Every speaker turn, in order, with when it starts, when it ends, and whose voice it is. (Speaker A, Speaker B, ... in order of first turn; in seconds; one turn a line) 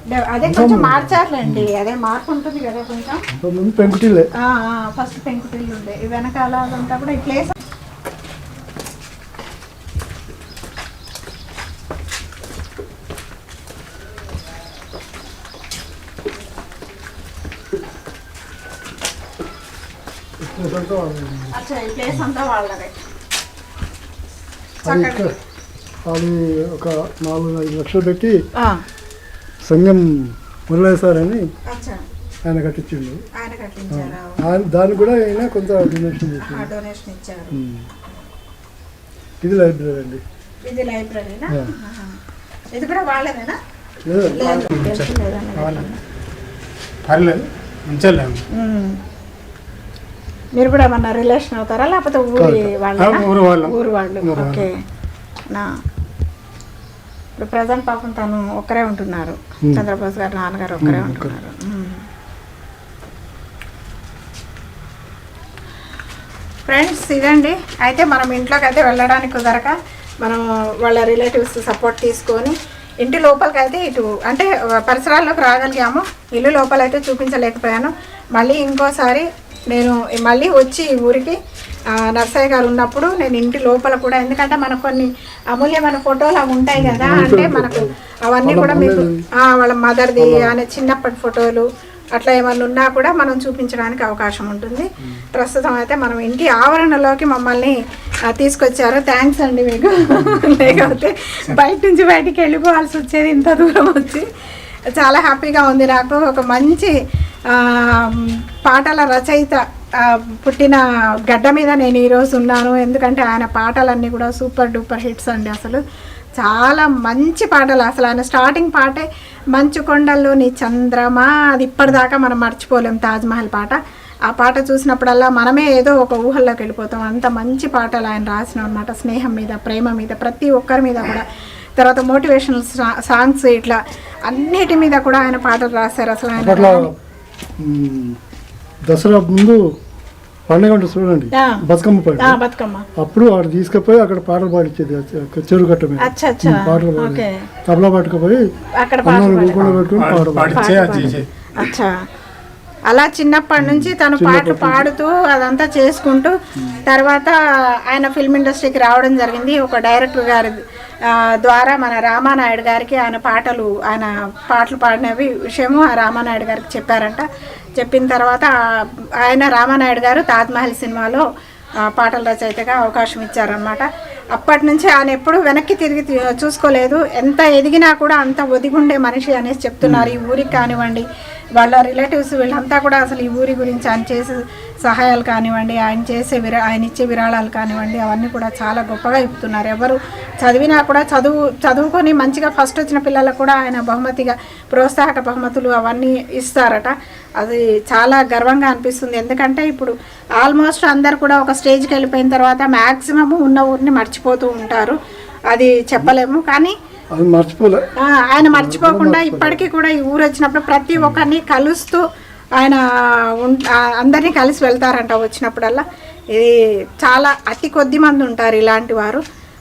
Speaker A: 0.1-3.2
Speaker B: 0.4-1.7
Speaker B: 3.3-4.3
Speaker A: 4.4-7.6
Speaker B: 20.4-21.6
Speaker A: 21.5-23.0
Speaker A: 24.8-25.3
Speaker B: 24.8-25.3
Speaker B: 26.1-28.4
Speaker A: 28.6-28.8
Speaker B: 29.6-31.4
Speaker A: 31.7-32.0
Speaker B: 32.5-33.2
Speaker A: 33.4-34.4
Speaker B: 33.9-36.7
Speaker A: 36.4-38.2
Speaker B: 37.5-37.9
Speaker B: 39.4-40.2
Speaker A: 40.6-42.2
Speaker A: 42.7-43.6
Speaker B: 44.1-44.7
Speaker A: 44.3-46.0
Speaker C: 44.8-45.9
Speaker C: 47.1-48.4
Speaker A: 48.6-49.0
Speaker A: 50.6-54.7
Speaker B: 52.4-52.7
Speaker C: 53.0-54.7
Speaker A: 57.4-62.0
Speaker B: 60.8-61.4
Speaker A: 66.7-81.4
Speaker A: 82.0-97.7
Speaker B: 86.8-87.9
Speaker B: 88.5-89.1
Speaker B: 90.2-90.5
Speaker A: 98.3-104.3
Speaker A: 105.0-106.9
Speaker A: 107.5-115.8
Speaker A: 116.4-123.8
Speaker A: 124.3-131.2
Speaker A: 131.8-136.9
Speaker B: 136.4-137.0
Speaker B: 137.6-138.2
Speaker B: 138.9-139.6
Speaker B: 140.5-142.4
Speaker A: 141.3-141.6
Speaker A: 142.2-142.8
Speaker B: 143.0-148.4
Speaker A: 146.0-147.4
Speaker A: 148.8-149.8
Speaker B: 149.0-151.2
Speaker C: 149.7-151.3
Speaker A: 150.5-151.9
Speaker A: 152.9-156.3
Speaker B: 153.6-154.9
Speaker A: 156.9-157.3
Speaker A: 157.9-167.2
Speaker A: 167.8-171.2
Speaker A: 171.9-181.1
Speaker A: 181.6-205.0
Speaker A: 205.5-206.7
Speaker B: 207.2-207.8
Speaker A: 208.0-212.0
Speaker B: 208.4-209.7
Speaker A: 213.4-215.8
Speaker A: 216.3-219.2